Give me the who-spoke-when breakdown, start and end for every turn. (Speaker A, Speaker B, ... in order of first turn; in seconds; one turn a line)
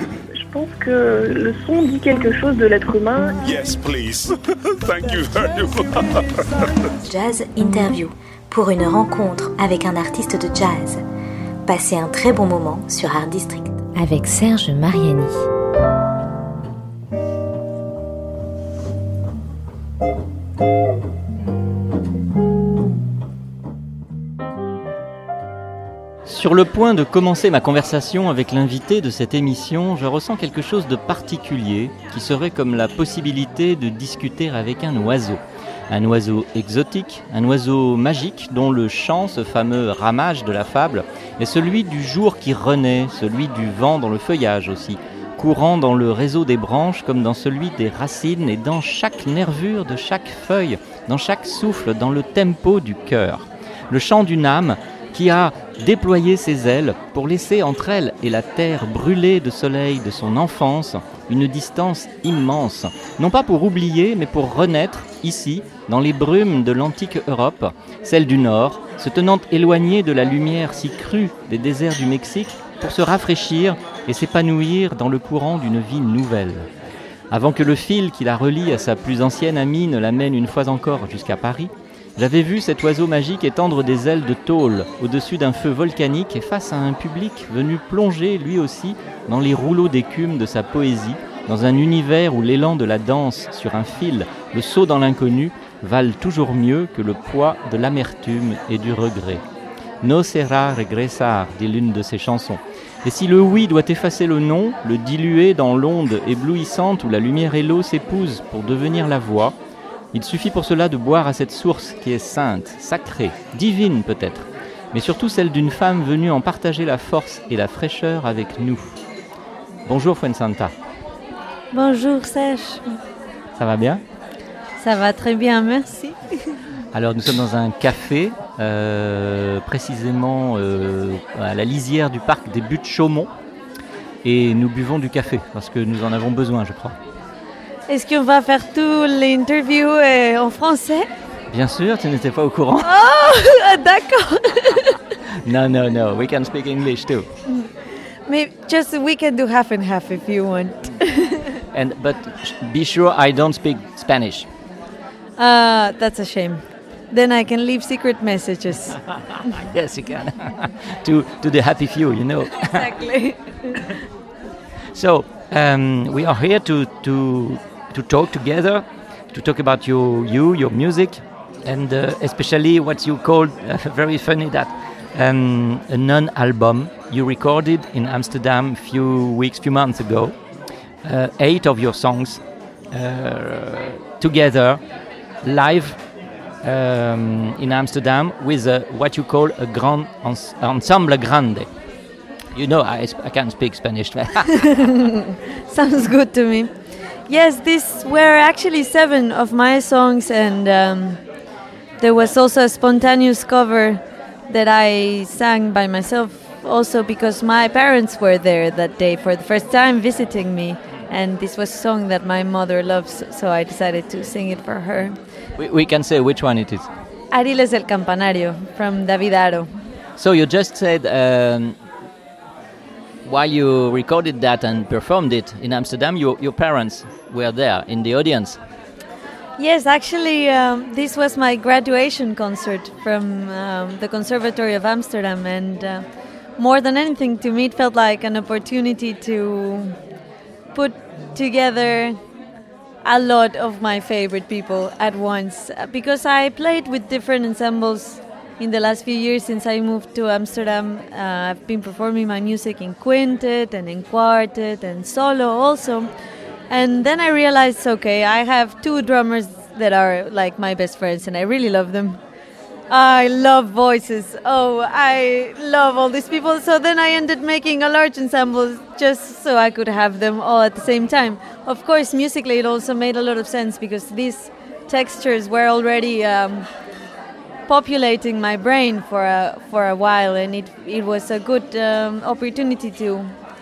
Speaker A: 0.3-3.4
Speaker B: 3.4-6.3
Speaker C: 7.0-11.0
Speaker C: 11.7-15.4
Speaker D: 26.2-76.7
Speaker D: 77.3-99.4
Speaker D: 100.0-109.5
Speaker D: 110.1-119.0
Speaker D: 119.8-120.7
Speaker E: 121.7-123.0
Speaker D: 123.6-124.0
Speaker E: 124.8-126.6
Speaker D: 126.9-133.3
Speaker D: 134.2-136.9
Speaker E: 137.9-141.1
Speaker D: 141.5-142.9
Speaker E: 142.8-145.0
Speaker D: 145.4-147.3
Speaker E: 147.4-147.7
Speaker E: 148.3-151.6
Speaker D: 151.7-154.5
Speaker E: 155.4-159.0
Speaker D: 159.5-162.8
Speaker E: 162.6-163.9
Speaker D: 164.9-180.4
Speaker D: 181.0-184.8
Speaker D: 185.4-186.1
Speaker D: 186.6-191.7
Speaker D: 192.5-194.8
Speaker E: 195.7-196.7
Speaker E: 197.3-201.2
Speaker E: 202.0-215.2
Speaker D: 215.6-216.9
Speaker E: 217.3-219.7
Speaker D: 220.2-221.8
Speaker D: 223.2-228.6
Speaker E: 229.6-236.0
Speaker E: 236.6-239.9
Speaker E: 240.7-242.2
Speaker E: 243.0-256.1
Speaker E: 256.7-262.2
Speaker E: 262.9-276.7
Speaker E: 277.7-283.3